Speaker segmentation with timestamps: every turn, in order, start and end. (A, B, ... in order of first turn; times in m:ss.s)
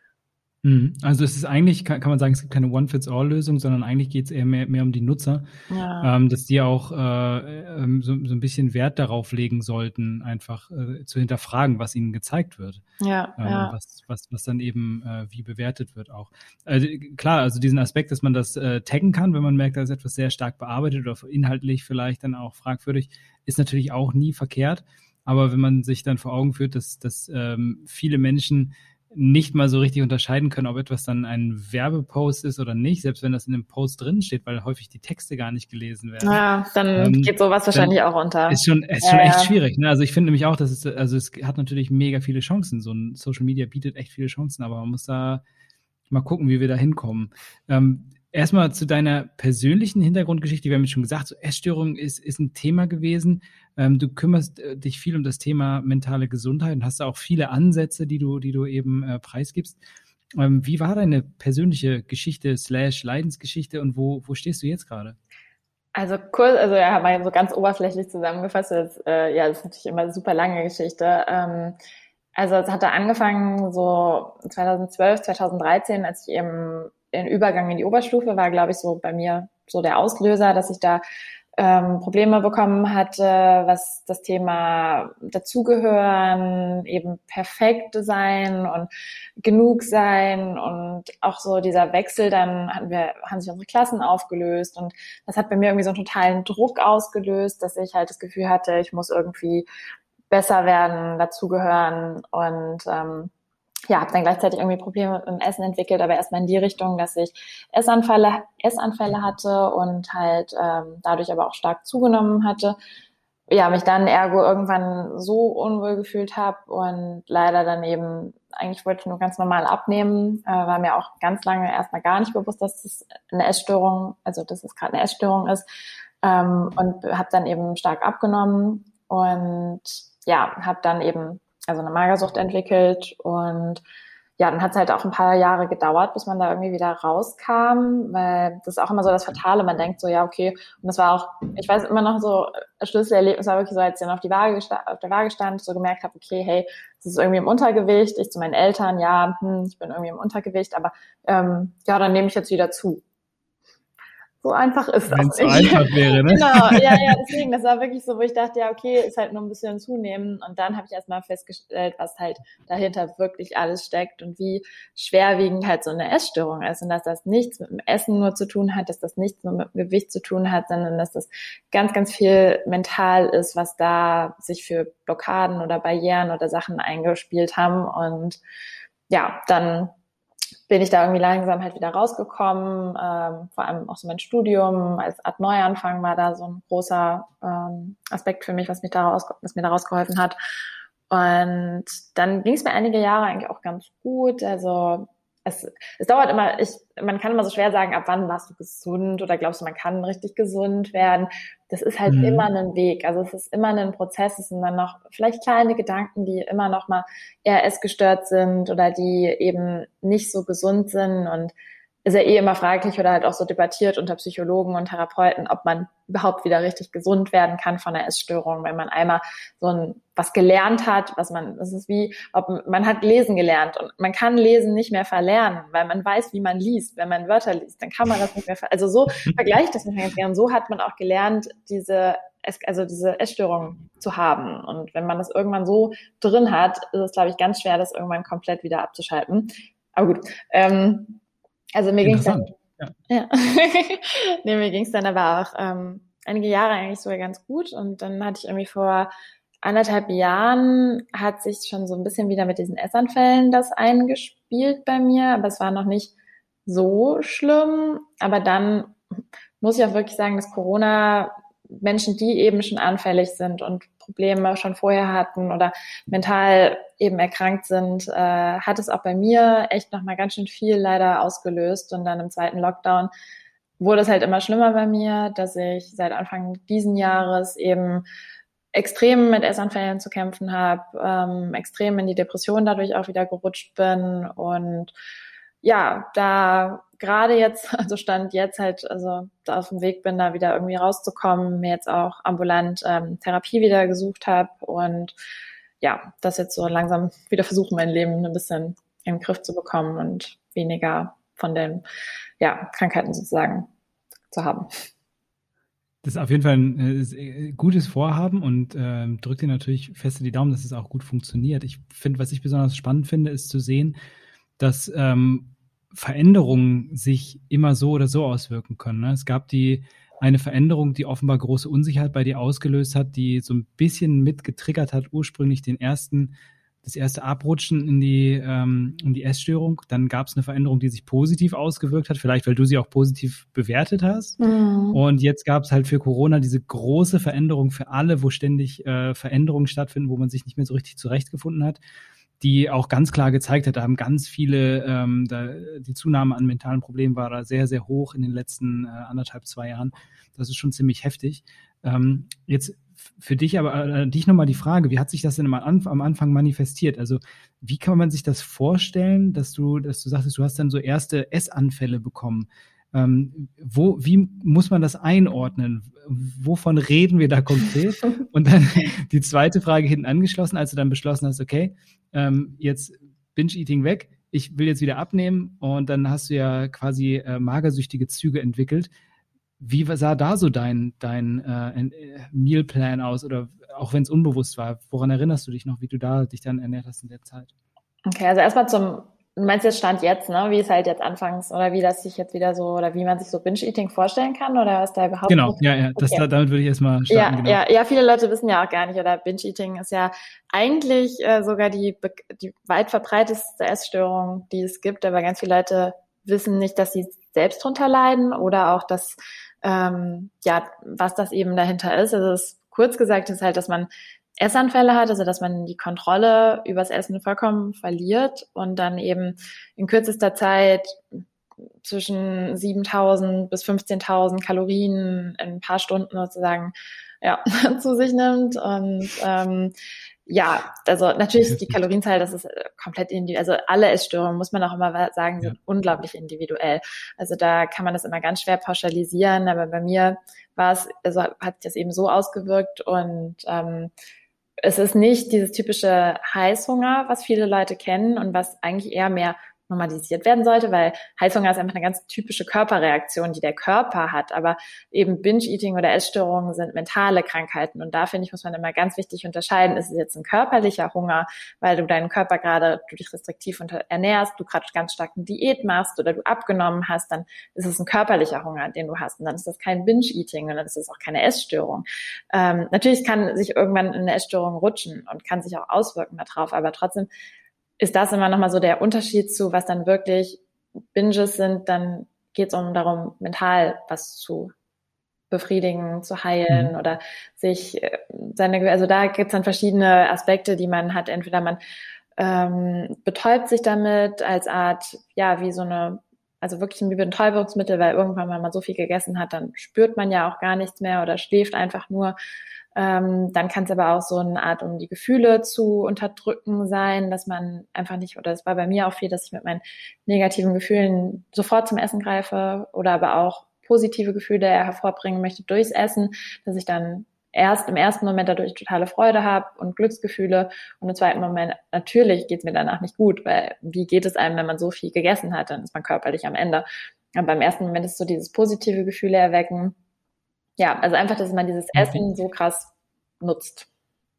0:00.6-0:05.4 A
0:05.7-0:06.1 B
0:06.0-0:12.8 A
0:13.0-0:13.8 B
0:13.4-0:36.4 A
0:36.2-0:39.5 B
0:37.0-0:37.9 A
0:38.5-0:45.4 A
0:46.1-0:59.8 A
1:00.4-1:05.2 A
1:06.0-1:11.8 B
1:12.4-1:21.0 B
1:21.6-1:28.9 B
1:29.4-1:39.7 B
1:40.3-1:43.3 B
1:43.9-1:52.8 B
1:53.5-2:05.6 B
2:06.2-2:13.8 B
2:14.4-2:33.0 B
2:34.4-2:58.4 B
2:35.1-2:37.2 A
2:59.1-2:59.9 B
3:00.7-3:10.4 B
3:11.1-3:31.5 B
3:22.1-3:22.5 A
3:32.0-4:01.2 B
4:01.8-4:02.5 B
4:02.0-4:02.9 A
4:03.1-4:09.1 B
4:09.6-4:16.1 B
4:16.7-4:19.0 B
4:19.6-4:33.1 B
4:33.8-4:38.0 B
4:38.7-4:44.9 B
4:45.6-4:55.2 B
4:55.8-5:01.8 B
5:02.4-5:03.7 B
5:04.3-5:04.7 B
5:06.0-5:14.0 A
5:14.6-5:26.3 A
5:26.8-5:34.4 A
5:34.4-5:35.0 B
5:34.9-5:41.8 A
5:42.4-6:18.9 A
6:19.6-6:27.5 A
6:28.1-6:36.2 B
6:35.3-6:37.6 A
6:37.1-6:53.9 B
6:54.4-7:01.2 B
7:01.8-7:09.7 B
7:10.3-7:23.9 B
7:11.4-7:11.8 A
7:24.6-7:57.1 B
7:57.8-8:00.4 B
8:00.9-8:04.5 B
8:05.3-8:11.6 B
8:12.2-8:22.2 B
8:22.8-8:46.6 B
8:47.2-8:49.8 B
8:50.6-8:53.7 B
8:51.8-8:52.0 A